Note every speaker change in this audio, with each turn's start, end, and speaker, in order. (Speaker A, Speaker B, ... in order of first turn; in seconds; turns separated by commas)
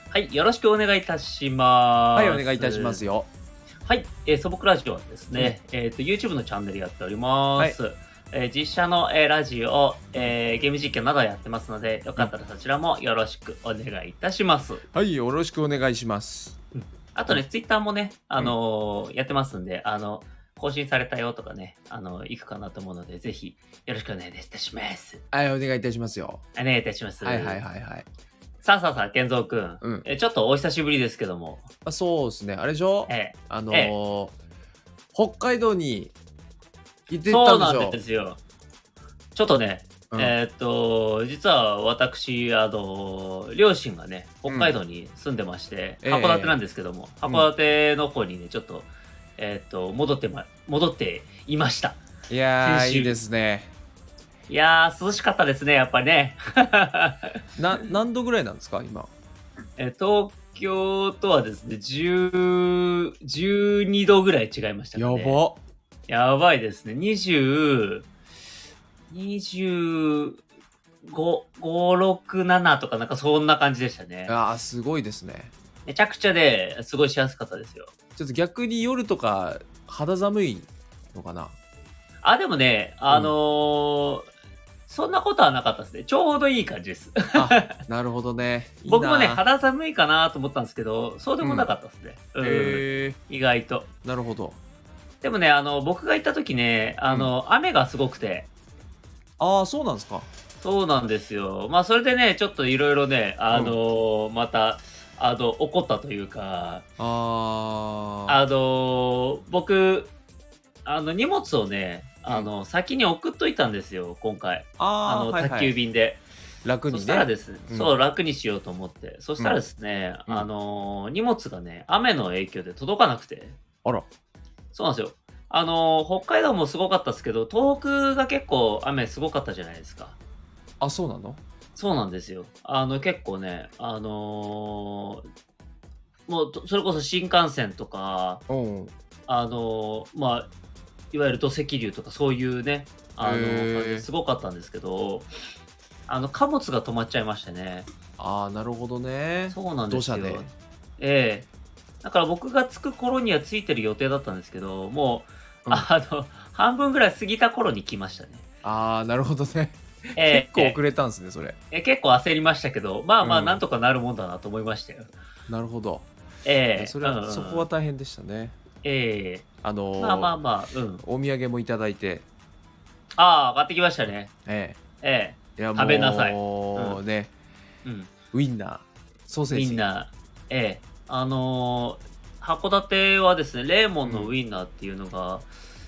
Speaker A: 0.1-3.0, Speaker B: 2.1-3.3, Speaker A: 3.9-14.8, Speaker B: 14.9-16.6, Speaker A: 16.8-25.2, Speaker B: 25.3-26.4, Speaker A: 26.5-27.6, Speaker B: 27.2-28.1, Speaker A: 28.6-31.6, Speaker B: 29.8-30.1, Speaker B: 31.8-34.3, Speaker A: 33.1-33.9, Speaker B: 35.1-36.1, Speaker B: 37.1-38.0, Speaker A: 37.2-38.4, Speaker A: 39.4-52.0, Speaker B: 44.5-44.8, Speaker B: 46.0-46.6, Speaker B: 52.3-53.7, Speaker A: 52.6-53.2, Speaker A: 54.5-57.3, Speaker B: 57.6-59.1, Speaker A: 59.8-65.4, Speaker B: 65.0-65.6, Speaker A: 66.1-68.1, Speaker A: 69.1-70.4, Speaker A: 71.0-74.3, Speaker B: 74.3-75.5, Speaker A: 75.8-77.9, Speaker B: 78.2-81.5, Speaker A: 82.2-84.3, Speaker B: 83.1-83.3, Speaker A: 84.9-87.8, Speaker B: 87.3-89.4, Speaker A: 88.8-93.9, Speaker B: 91.4-91.7, Speaker B: 92.4-93.2, Speaker B: 94.0-94.6, Speaker A: 95.2-98.5, Speaker B: 99.4-100.3, Speaker A: 100.6-106.8, Speaker B: 103.5-103.8, Speaker B: 107.0-108.4, Speaker A: 108.3-110.1, Speaker A: 110.8-116.2, Speaker B: 114.8-115.7, Speaker B: 116.6-117.9, Speaker A: 116.9-123.6, Speaker A: 124.7-130.2, Speaker B: 130.8-131.4, Speaker A: 131.8-135.2, Speaker A: 136.3-138.4, Speaker B: 138.5-138.9, Speaker A: 139.3-140.5, Speaker A: 141.1-145.3, Speaker B: 143.2-144.1, Speaker A: 146.1-147.9, Speaker B: 148.2-150.4, Speaker A: 149.5-151.5, Speaker A: 152.0-158.4, Speaker B: 158.6-161.6, Speaker A: 160.2-160.8, Speaker A: 161.7-165.1, Speaker B: 163.2-163.6, Speaker B: 165.5-166.1, Speaker A: 166.4-167.7, Speaker B: 166.8-168.5, Speaker A: 168.8-169.4, Speaker B: 169.6-170.3, Speaker A: 170.0-171.0, Speaker B: 171.0-172.2, Speaker A: 173.2-174.3, Speaker B: 174.4-174.8, Speaker A: 175.0-177.0, Speaker B: 175.6-177.3, Speaker A: 177.8-178.1, Speaker B: 178.3-179.8, Speaker A: 179.5-185.5, Speaker B: 184.0-184.3